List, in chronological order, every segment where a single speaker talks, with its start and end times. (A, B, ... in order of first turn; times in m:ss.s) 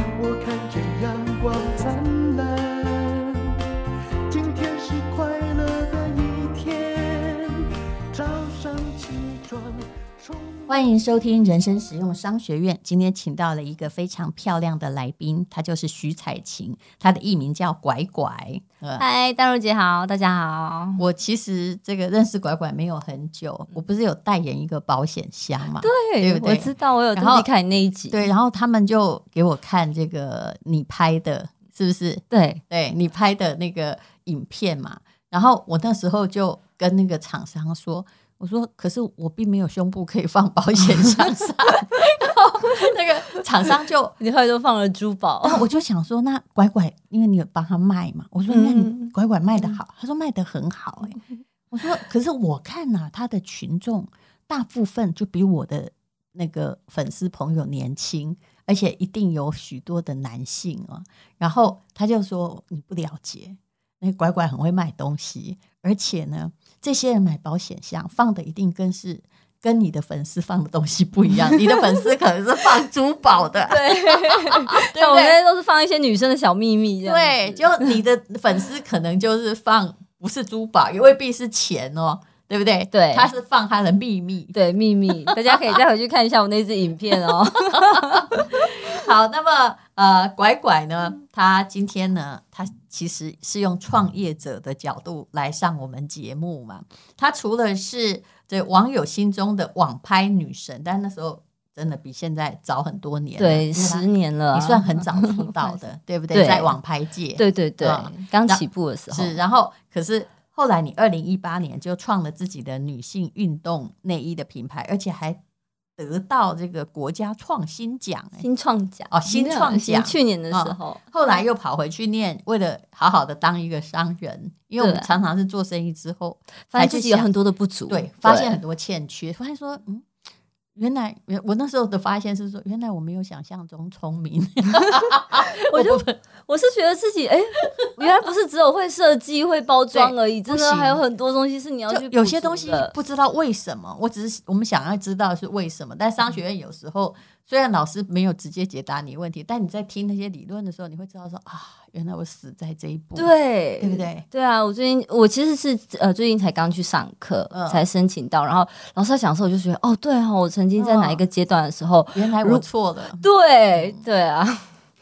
0:00.2-0:03.6 A
0:04.3-0:10.9 A
0:10.7-0:19.0 B
0:19.0-0:21.0 C
0:21.0-0:27.5 B
0:25.8-0:28.3 C
0:28.1-0:44.2 B
0:32.3-0:32.6 C
0:44.2-0:45.6 C
0:45.4-0:51.2 B
0:48.5-0:49.7 C
0:51.7-1:15.4 B
1:13.7-1:18.0 C
1:17.0-1:24.6 B
1:22.9-1:23.3 C
1:24.5-1:28.7 C
1:25.2-1:25.8 B
1:27.2-1:55.4 B
1:43.4-1:45.5 C
1:46.3-1:46.8 C
1:47.4-1:49.4 C
1:56.0-1:58.4 B
1:58.4-2:01.0 C
1:59.1-2:07.3 B
2:04.8-2:05.1 C
2:06.7-2:08.6 C
2:07.9-2:10.1 B
2:10.8-2:16.1 B
2:14.8-2:22.9 C
2:19.9-2:21.0 B
2:21.9-2:34.2 B
2:33.2-2:42.6 C
2:37.5-2:37.8 B
2:40.8-2:41.2 B
2:42.1-2:43.2 B
2:43.2-2:44.7 C